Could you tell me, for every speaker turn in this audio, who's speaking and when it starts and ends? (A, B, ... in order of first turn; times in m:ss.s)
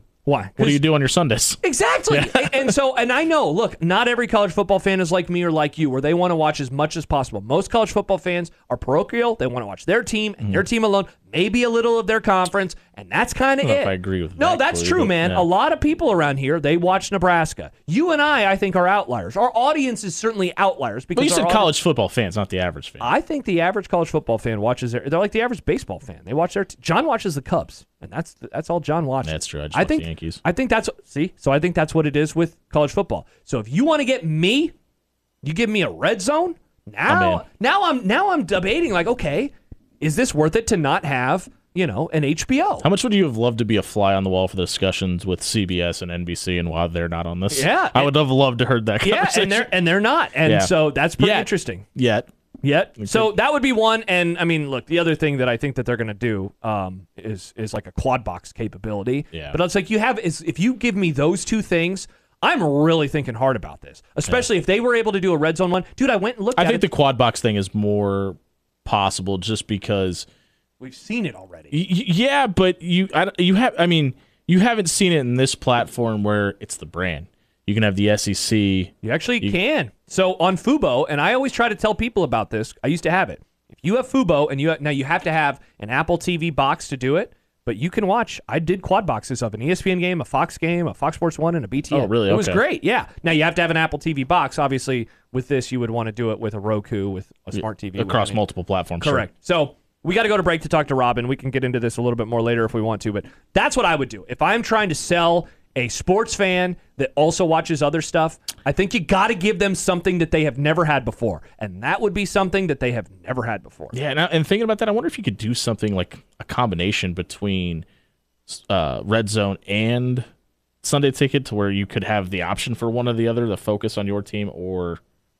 0:00.2-0:00.8 A
0:00.6-0:01.6 B
0:01.6-0:21.7 A
0:02.1-0:02.7 B
0:13.6-0:15.4 B
0:21.2-0:23.1 B
0:23.0-0:34.7 A
0:29.2-0:30.4 B
0:35.4-0:42.9 A
0:37.1-0:37.4 B
0:42.8-0:49.7 B
0:47.5-0:48.1 A
0:49.0-0:51.8 A
0:50.4-0:52.3 B
0:52.6-1:06.9 A
0:53.0-0:53.3 B
1:06.6-1:10.2 B
1:10.8-1:11.8 A
1:11.7-1:19.6 B
1:19.0-1:38.4 A
1:31.9-1:32.6 B
1:37.5-1:39.3 B
1:39.0-1:54.0 A
1:53.9-1:57.8 B
1:58.5-2:00.2 B
2:00.8-2:05.0 B